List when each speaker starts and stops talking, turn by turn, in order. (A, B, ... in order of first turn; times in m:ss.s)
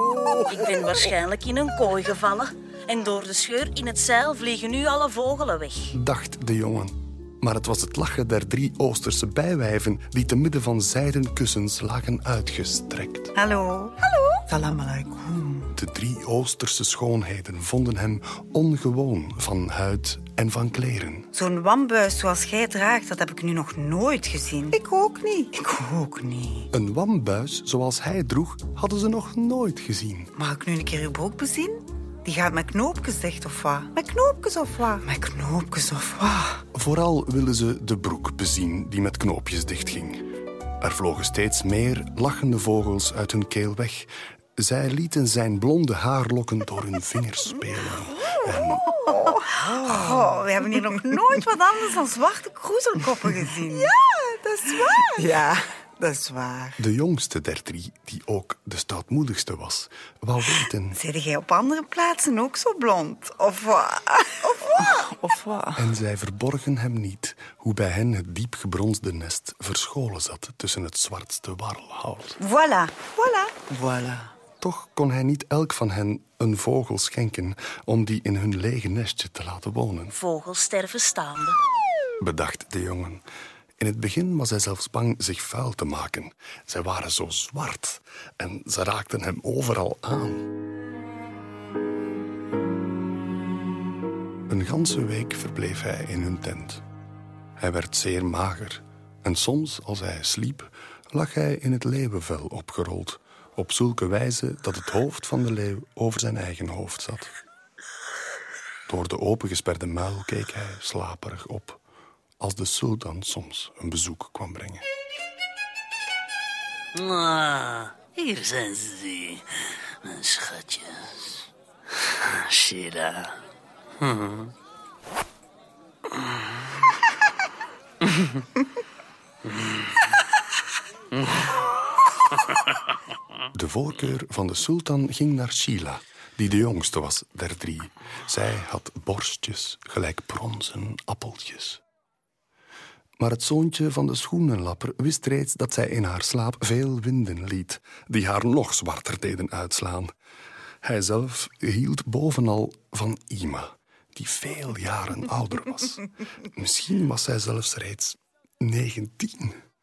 0:00.4-0:05.9 A
0:05.9-0:13.3 B
0:13.4-0:15.7 C
0:15.7-0:21.3 B
0:21.3-0:26.7 C
0:26.7-0:30.3 B
0:30.4-0:36.6 C
0:36.7-0:40.2 B
0:40.8-0:48.9 B
0:49.0-0:56.8 C
0:56.8-1:01.0 B
1:00.9-1:05.8 C
1:05.8-1:12.4 B
1:12.4-1:14.3 C
1:14.6-1:20.1 B
1:20.1-1:21.6 A
1:22.2-1:23.2 B
1:23.8-1:30.5 B
1:34.5-1:36.8 B
1:37.6-1:47.3 B
1:48.9-1:51.8 B
1:52.4-1:54.8 B
1:56.9-2:01.4 D
2:02.2-2:03.4 D
2:04.0-2:04.5 D
2:13.5-2:21.8 B
2:23.2-2:30.1 B
2:30.8-2:39.6 B